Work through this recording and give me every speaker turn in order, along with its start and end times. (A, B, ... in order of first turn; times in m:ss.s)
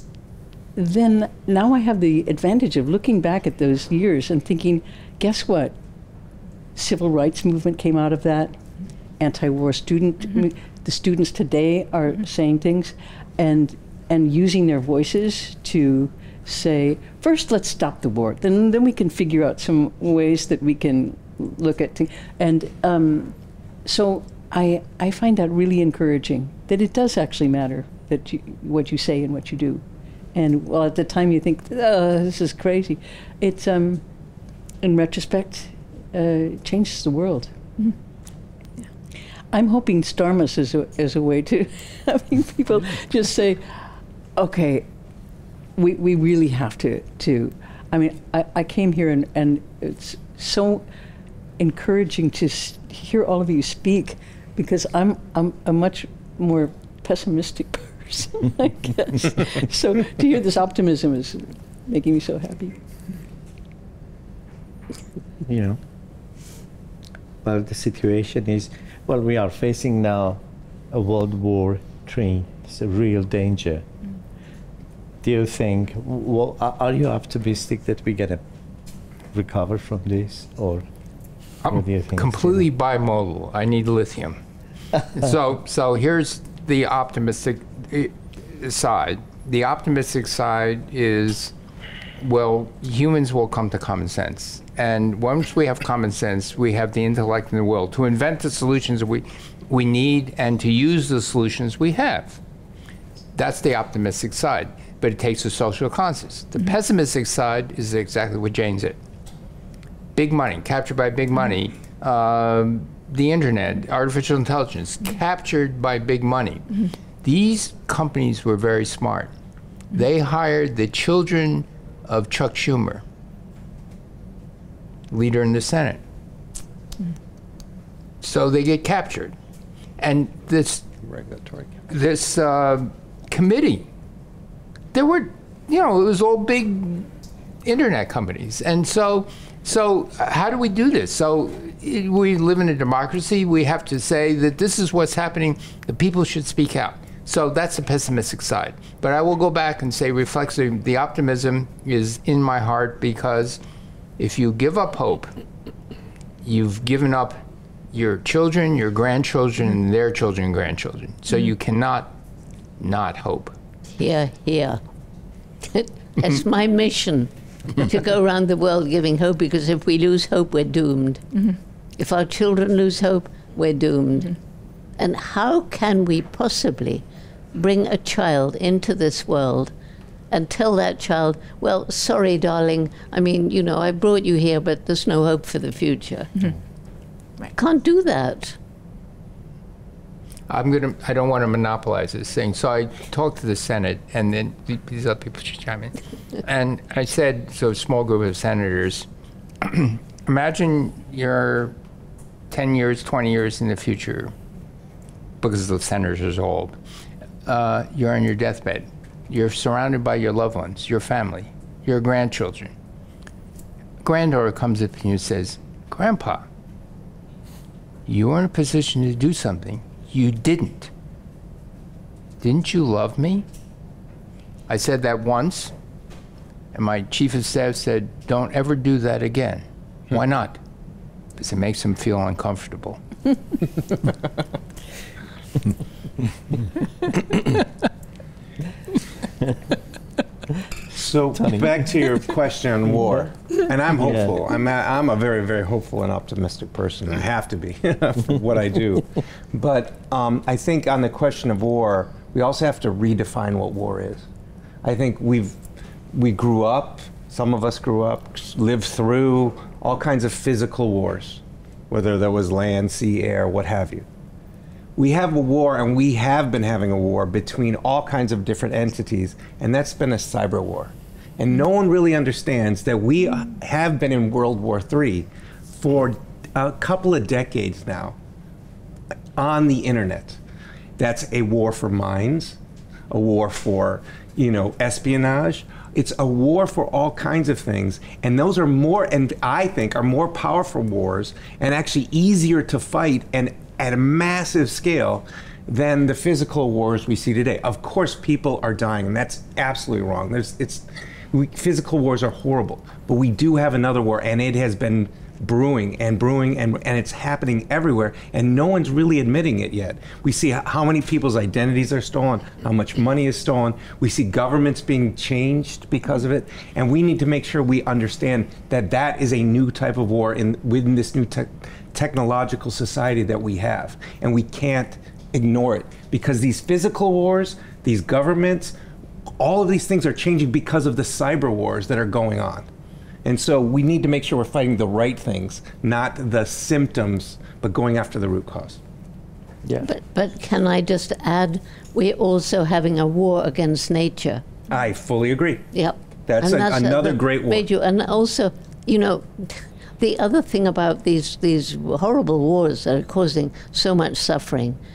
0:00.8-0:05.8 A
0:06.8-0:08.6 A
0:09.2-0:29.8 A
0:30.3-0:34.0 A
0:34.8-0:37.5 A
0:39.5-0:43.6 A
0:44.4-0:44.9 A
0:45.8-0:50.8 A
0:51.6-1:02.8 A
1:05.4-1:05.8 B
1:07.4-1:13.8 B
1:15.2-1:18.4 B
1:19.3-1:20.9 B
1:21.6-1:24.4 C
1:21.7-1:22.6 B
1:25.1-1:31.5 C
1:32.2-1:42.4 C
1:43.4-1:49.0 C
1:50.2-1:56.7 C
1:57.2-1:59.3 C
1:59.9-2:03.0 C
2:05.1-2:06.0 C
2:08.2-2:09.3 C
2:10.0-2:10.9 C
2:11.3-2:11.6 D
2:11.9-2:13.9 C
2:14.9-2:17.1 C
2:17.6-2:33.6 C
2:34.2-2:35.3 C
2:36.4-2:37.4 C
2:37.9-2:42.1 C
2:42.8-2:43.6 C
2:44.0-2:44.8 E
2:45.7-2:51.2 E
2:52.0-2:54.4 E
2:55.0-2:59.7 E
3:00.3-3:06.3 E
3:07.5-3:08.6 E
3:10.5-3:19.1 C
3:19.6-3:21.8 C
3:22.5-3:24.3 C
3:25.4-3:26.8 C
3:27.5-3:32.7 C
3:34.0-3:36.5 C
3:38.1-3:40.9 C
3:42.4-3:43.4 C
3:44.7-3:45.7 C
3:46.7-3:50.6 C
3:51.4-3:53.0 C
4:00.9-4:14.2 D
4:01.4-4:01.7 B
4:03.9-4:04.4 B
4:14.8-4:15.6 D
4:16.1-4:24.0 D
4:25.0-4:38.2 D
4:39.4-4:40.4 D
4:41.0-4:42.6 D
4:43.1-5:28.8 D
5:29.4-5:32.7 D
5:33.2-5:38.8 D
5:39.8-5:44.4 E
5:44.7-5:45.6 D
5:45.7-5:54.8 E
5:46.3-5:47.6 D